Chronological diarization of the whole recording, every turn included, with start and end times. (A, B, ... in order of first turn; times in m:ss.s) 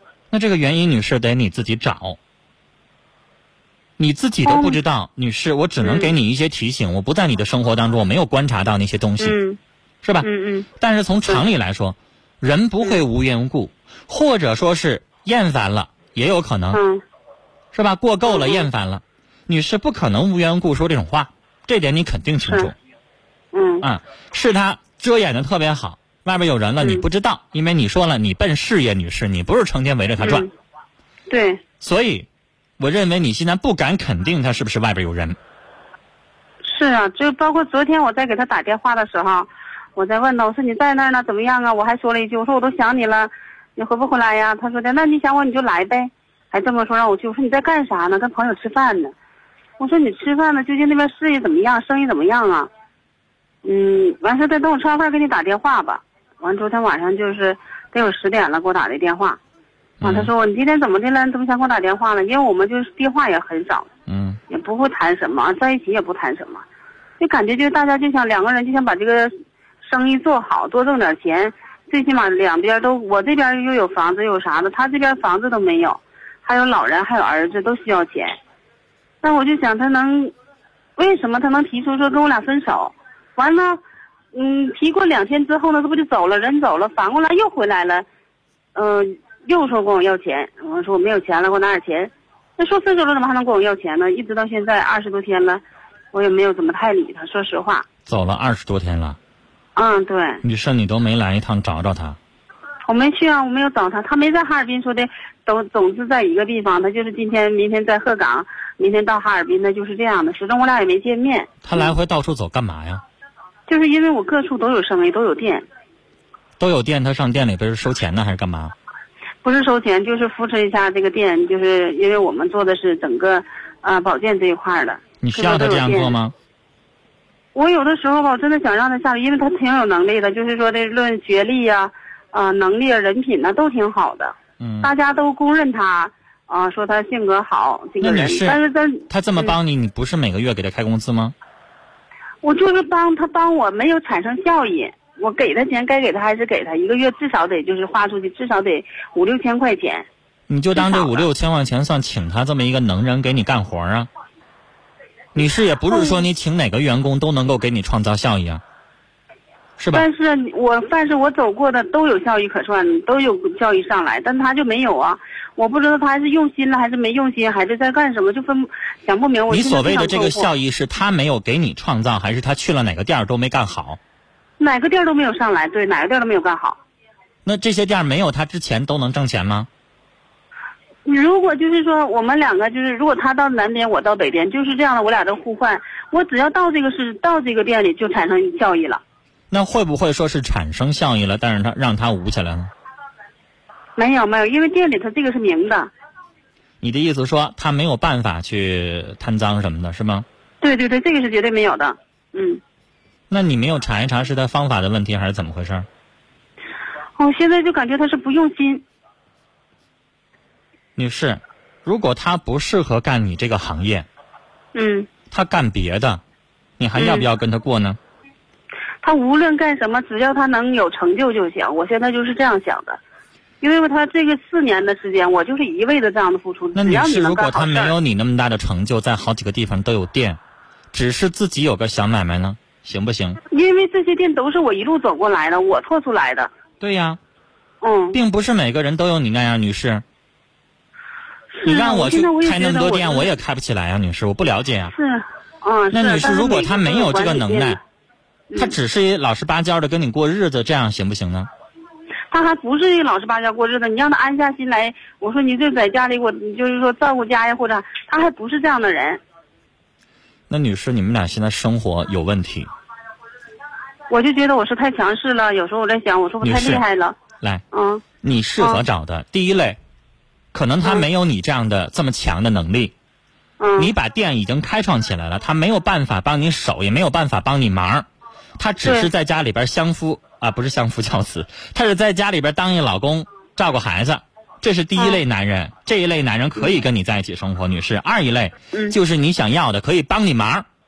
0:00.3-0:02.2 A
0:04.0-0:09.4 A
0:04.4-0:04.8 B
0:05.8-0:06.1 B
0:09.2-0:09.6 B
0:10.0-0:16.8 A
0:10.2-0:10.7 B
0:16.7-0:17.0 B
0:17.7-0:22.7 A
0:18.3-0:18.6 B
0:22.4-0:22.7 B
0:23.5-0:23.9 B
0:23.8-0:30.5 A
0:26.8-0:27.0 B
0:30.2-0:30.5 B
0:31.3-0:31.6 B
0:31.8-0:32.3 A
0:32.8-0:35.4 A
0:36.6-0:49.1 B
0:49.8-0:52.7 B
0:53.6-0:59.4 B
1:00.0-1:00.3 A
1:00.0-1:03.9 B
1:04.1-1:04.4 A
1:04.5-1:06.6 B
1:07.2-1:18.4 B
1:19.2-1:20.3 B
1:21.0-1:23.8 B
1:24.3-1:28.0 B
1:28.7-1:35.6 B
1:36.1-1:37.8 B
1:38.0-1:39.2 A
1:39.8-1:40.4 B
1:40.4-1:42.2 A
1:42.8-1:51.9 B
1:51.6-1:53.0 A
1:53.7-1:55.6 B
1:56.6-1:58.7 A
1:59.4-2:06.1 B
2:05.2-2:06.3 A
2:07.5-2:19.5 B
2:14.6-2:14.9 A
2:18.0-2:18.6 A
2:19.1-2:21.3 A
2:22.4-2:30.0 B
2:30.5-2:34.1 A
2:30.8-2:31.2 B
2:35.3-2:38.6 A
2:35.9-2:36.2 B
2:39.8-2:40.0 A
2:39.9-2:50.5 B
2:49.5-2:54.0 A
2:54.6-2:56.8 B
2:57.4-2:59.7 A
3:01.0-3:09.0 B
3:09.5-3:12.7 A
3:14.0-3:15.9 B
3:16.8-3:20.2 A
3:20.6-3:22.6 B
3:23.3-3:25.9 A
3:27.2-3:28.8 B
3:31.0-3:34.1 A
3:34.7-3:35.1 B
3:35.3-3:36.2 A
3:36.8-3:38.0 A
3:37.0-3:37.2 B
3:39.0-3:43.0 B
3:43.6-3:47.9 B
3:46.7-3:50.4 A
3:50.9-3:53.4 A
3:53.5-3:56.5 B
3:56.8-3:57.2 A
3:57.8-3:58.2 B
3:58.1-4:00.0 A
4:01.5-4:03.3 B
4:01.6-4:04.9 A
4:04.9-4:07.8 B
4:05.9-4:07.8 A
4:08.5-4:08.8 B
4:08.6-4:11.5 A
4:12.3-4:19.2 B
4:20.5-4:22.7 A
4:24.1-4:27.2 B
4:26.4-4:26.8 A
4:27.7-4:28.0 B
4:28.2-4:29.8 A
4:30.5-4:32.9 A
4:33.6-4:33.9 B
4:33.8-4:38.0 A
4:38.6-4:50.6 A
4:38.8-4:39.1 B
4:46.6-4:46.8 B